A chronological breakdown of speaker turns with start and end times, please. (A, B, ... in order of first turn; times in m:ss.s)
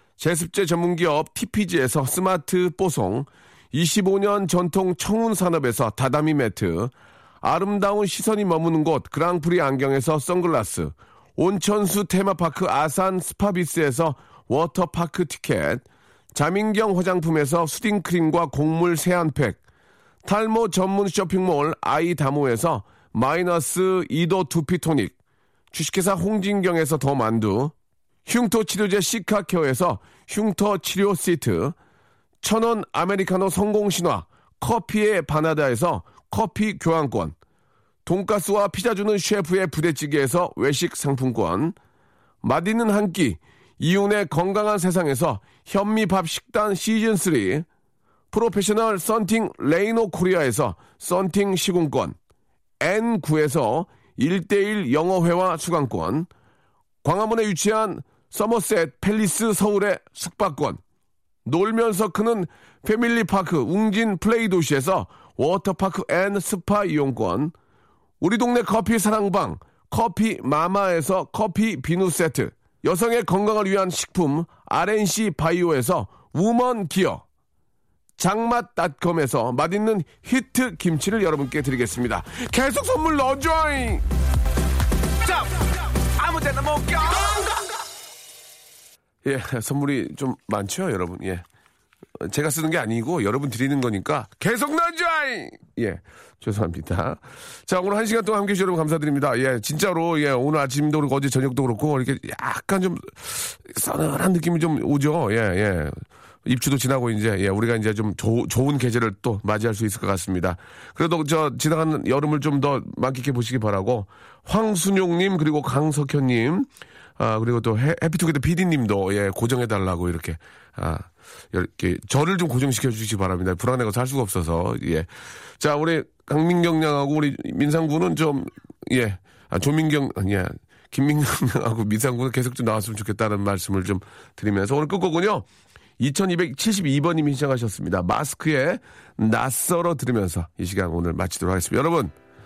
0:00.2-0:19.6 A
0:20.2-0:25.1 A
0:25.7-0:27.7 A
0:28.2-0:31.8 A
0:32.4-0:37.4 A
0:38.0-0:41.8 A
0:42.4-0:47.6 A
0:48.3-0:52.2 A
0:52.8-0:56.3 A
0:57.0-1:00.8 A
1:01.4-1:07.5 A
1:08.2-1:17.2 A
1:18.2-1:24.0 A
1:25.2-1:27.5 A
1:29.2-1:31.4 A
1:32.2-2:15.5 A
2:16.0-2:22.1 A